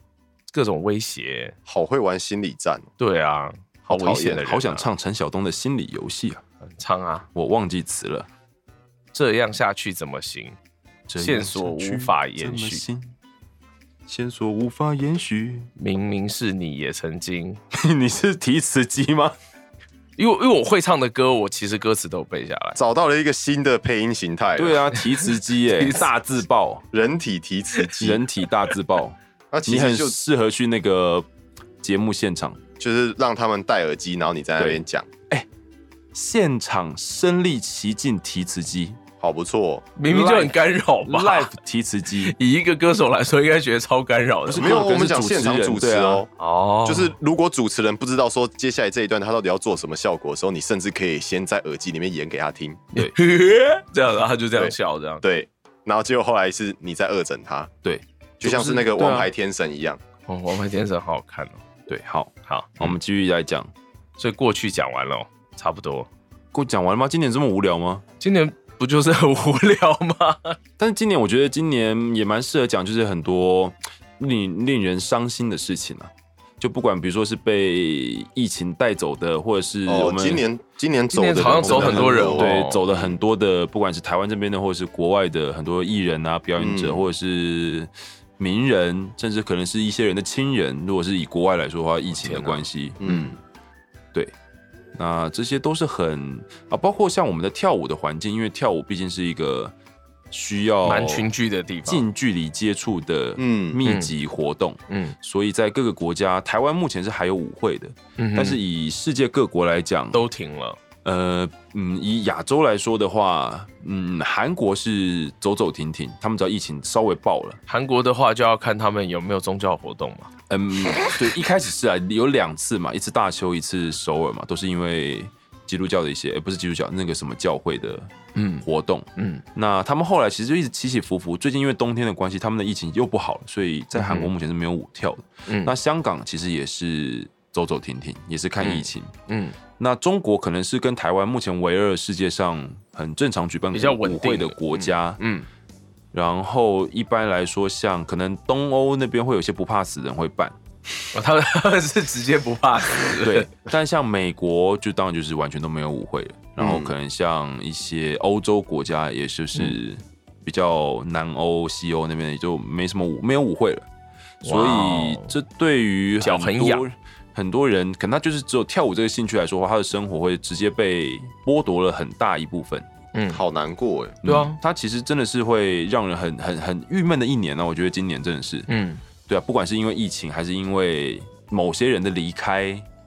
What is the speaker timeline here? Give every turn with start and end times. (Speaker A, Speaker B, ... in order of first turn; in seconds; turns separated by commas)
Speaker A: 0.5-1.6, Speaker B: 1.7-2.9, Speaker A: 3.0-4.9, Speaker B: 3.9-4.4, Speaker C: 4.2-6.4, Speaker A: 6.6-7.3, Speaker C: 7.3-8.3, Speaker A: 9.1-10.6, Speaker C: 11.1-13.2, Speaker A: 11.2-12.8, Speaker C: 14.1-15.7, Speaker A: 15.8-17.6, Speaker C: 17.7-19.4, Speaker A: 20.2-22.8, Speaker B: 22.8-24.8, Speaker C: 24.6-26.9, Speaker A: 24.9-26.1, Speaker B: 26.9-28.2, Speaker C: 28.0-31.3, Speaker B: 29.5-30.2, Speaker C: 31.8-32.6, Speaker B: 32.8-35.1, Speaker C: 34.6-35.5, Speaker C: 36.1-39.0, Speaker B: 39.2-39.9, Speaker A: 40.0-41.5, Speaker C: 40.1-42.4, Speaker A: 42.2-44.8, Speaker C: 44.5-46.2, Speaker B: 44.6-46.3, Speaker A: 46.4-47.2, Speaker B: 46.9-52.8, Speaker A: 52.9-55.2, Speaker B: 54.6-57.7, Speaker C: 57.8-59.3, Speaker B: 58.4-60.0, Speaker A: 60.3-61.6, Speaker C: 61.9-63.7, Speaker A: 62.5-62.9, Speaker A: 64.2-66.1, Speaker C: 66.5-68.0, Speaker A: 68.2-70.6, Speaker C: 70.8-80.5, Speaker B: 79.9-83.1, Speaker A: 81.1-82.8, Speaker C: 81.4-93.2, Speaker B: 86.6-87.0, Speaker A: 92.1-93.2, Speaker B: 93.0-93.4, Speaker C: 94.9-99.7, Speaker C: 100.3-101.3, Speaker A: 100.8-102.1, Speaker C: 101.9-110.2, Speaker B: 103.4-103.8, Speaker A: 103.8-104.1, Speaker A: 104.9-105.2, Speaker A: 108.2-108.6, Speaker A: 110.1-110.8, Speaker C: 111.0-117.6, Speaker A: 117.7-120.3, Speaker C: 120.5-128.1, Speaker A: 128.3-128.7, Speaker C: 128.6-139.1, Speaker A: 129.2-129.4, Speaker A: 133.9-134.3, Speaker A: 135.5-135.7, Speaker A: 138.6-139.6, Speaker C: 139.8-145.2, Speaker A: 143.7-145.5, Speaker C: 146.1-150.6, Speaker A: 151.1-153.5, Speaker C: 153.2-163.9, Speaker B: 156.6-156.9, Speaker A: 164.4-165.4, Speaker C: 164.4-172.9, Speaker A: 166.2-166.8, Speaker A: 173.1-173.4, Speaker B: 173.3-174.2, Speaker C: 174.2-178.7, Speaker A: 174.2-174.6, Speaker A: 178.7-179.0, Speaker C: 179.3-182.9